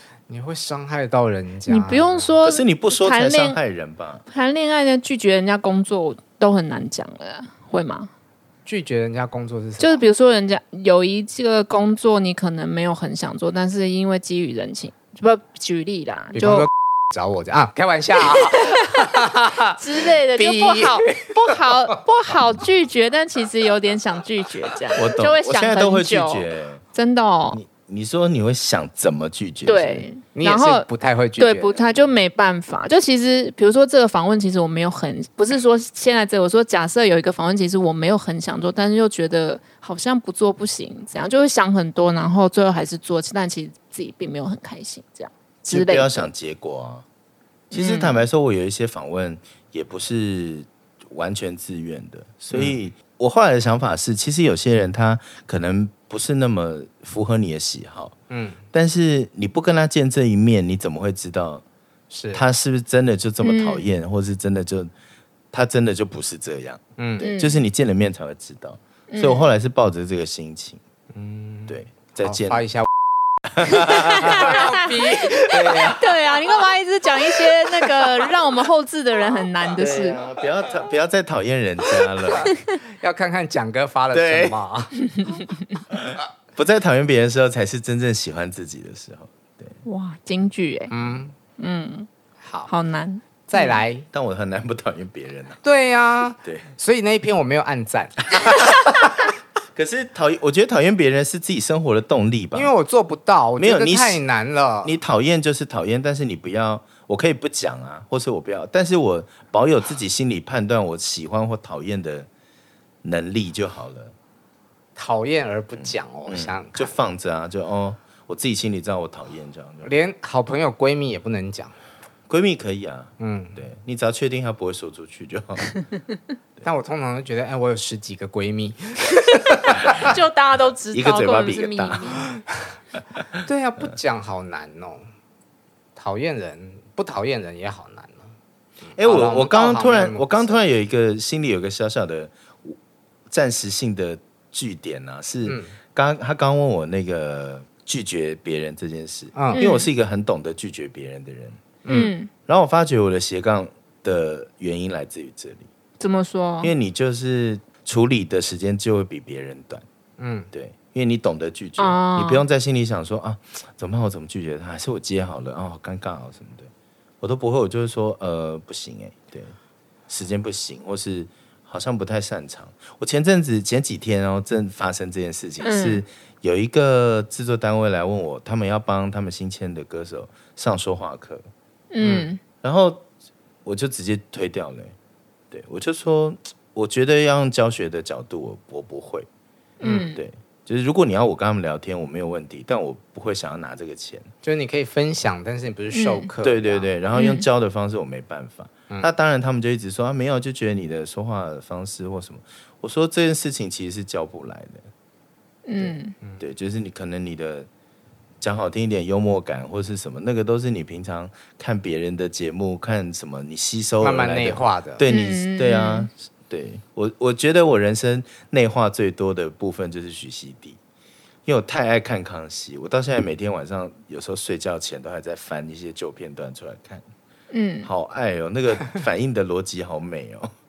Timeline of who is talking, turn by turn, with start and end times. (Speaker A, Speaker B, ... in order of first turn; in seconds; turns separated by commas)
Speaker A: 0.3-2.3, Speaker B: 1.7-3.6, Speaker C: 2.4-4.2, Speaker B: 4.3-8.1, Speaker A: 8.7-10.0, Speaker B: 9.8-16.7, Speaker A: 16.3-22.0, Speaker B: 19.7-27.6, Speaker C: 24.9-26.8, Speaker C: 27.5-30.1, Speaker B: 29.7-30.9, Speaker A: 30.4-31.9, Speaker B: 31.4-46.3, Speaker C: 45.7-47.0, Speaker C: 47.7-58.1, Speaker B: 47.7-48.2, Speaker A: 52.5-52.8, Speaker A: 58.3-58.6, Speaker C: 58.7-61.6, Speaker A: 62.1-62.4, Speaker C: 62.3-64.9, Speaker B: 63.4-63.8, Speaker C: 65.5-70.8, Speaker A: 67.0-67.3, Speaker B: 67.2-67.6, Speaker B: 69.1-69.5, Speaker A: 71.1-72.9, Speaker C: 71.7-72.7, Speaker C: 73.5-74.5, Speaker B: 73.8-80.2, Speaker A: 74.1-76.0, Speaker C: 75.5-76.2, Speaker C: 79.8-82.5, Speaker A: 82.3-85.0, Speaker C: 84.1-84.6, Speaker B: 85.2-85.5, Speaker C: 85.9-89.8, Speaker B: 89.8-90.9, Speaker A: 90.9-91.3, Speaker B: 91.6-92.1, Speaker A: 92.4-92.7, Speaker B: 92.7-93.8, Speaker A: 93.5-94.1, Speaker C: 94.1-95.6, Speaker A: 95.6-98.8, Speaker C: 99.8-102.7, Speaker A: 102.5-104.9, Speaker C: 103.6-104.2, Speaker C: 104.8-112.3, Speaker C: 113.0-114.1, Speaker A: 115.0-117.0, Speaker C: 115.8-119.9, Speaker A: 119.8-121.8, Speaker C: 122.3-125.7, Speaker A: 123.2-123.6, Speaker A: 126.6-130.1, Speaker B: 129.9-132.3, Speaker C: 130.9-132.2, Speaker A: 133.3-135.1, Speaker A: 136.0-138.3, Speaker A: 138.9-140.6, Speaker C: 139.0-142.8, Speaker C: 143.3-151.8, Speaker A: 145.5-145.8, Speaker A: 149.3-149.6, Speaker B: 149.6-149.9, Speaker A: 151.8-152.1, Speaker B: 151.9-152.3, Speaker C: 152.5-155.7, Speaker B: 156.0-156.7, Speaker C: 156.6-159.9, Speaker A: 160.2-160.5, Speaker C: 160.5-169.6, Speaker B: 161.8-162.4, Speaker C: 170.1-181.5, Speaker B: 175.6-176.0, Speaker B: 181.9-182.4, Speaker A: 182.0-182.3, Speaker C: 182.6-183.1, Speaker C: 183.7-184.9, Speaker C: 185.5-189.3, Speaker B: 189.8-190.2, Speaker A: 189.8-190.1, Speaker C: 190.1-194.3, Speaker A: 194.4-196.9, Speaker B: 195.9-196.3, Speaker C: 196.4-204.9, Speaker B: 197.2-197.4, Speaker B: 205.7-206.2, Speaker C: 205.8-207.7, Speaker C: 208.4-220.8, Speaker A: 214.0-215.0, Speaker B: 215.1-216.1, Speaker C: 221.4-227.1, Speaker B: 227.5-227.9, Speaker C: 227.8-230.5